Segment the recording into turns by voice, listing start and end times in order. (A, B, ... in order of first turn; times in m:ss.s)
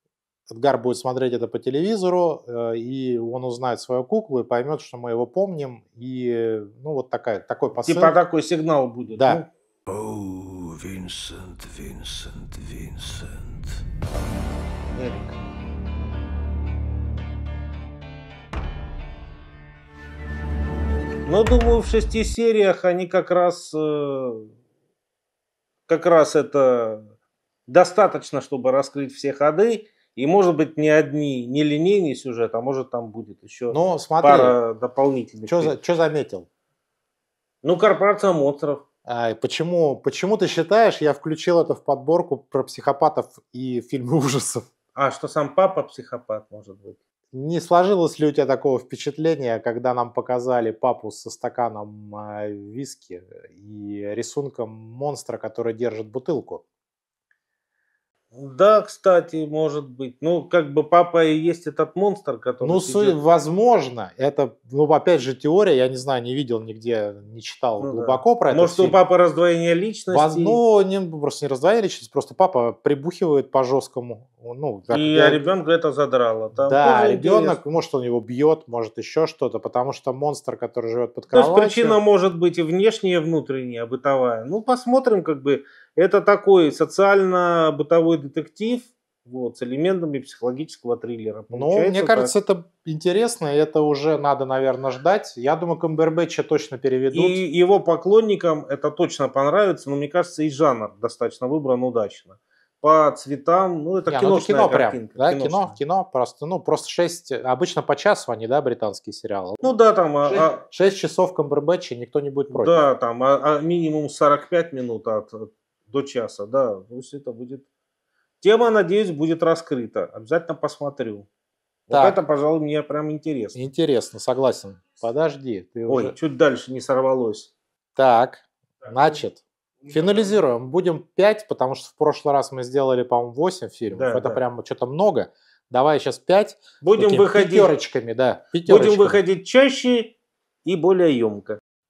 0:00.5-0:08.2 A
0:07.8-0:09.5 B
0:09.2-0:09.4 A
0:09.9-0:13.8 C
0:15.0-0:15.3 B
0:21.2-0:24.5 B
0:25.9-0:27.1 B
0:27.7-0:35.8 B
0:33.7-0:34.6 A
0:35.4-0:36.5 A
0:37.6-0:38.8 B
0:39.0-0:44.6 A
0:44.9-0:47.0 B
0:47.3-0:56.6 A
0:58.3-1:03.2 B
1:02.6-1:09.0 A
1:07.8-1:10.6 B
1:10.1-1:15.4 A
1:14.9-1:17.6 B
1:16.6-1:22.0 A
1:21.3-1:32.3 B
1:31.5-1:37.4 A
1:37.1-1:45.8 B
1:44.1-1:49.7 A
1:49.6-1:50.6 B
1:50.2-1:52.9 A
1:52.5-1:57.6 B
1:58.4-2:01.3 B
2:01.9-2:03.6 B
2:01.9-2:02.2 A
2:03.5-2:06.2 A
2:05.9-2:07.5 B
2:08.0-2:19.2 A
2:09.8-2:10.3 B
2:13.9-2:14.4 B
2:16.8-2:17.7 B
2:18.6-2:21.6 B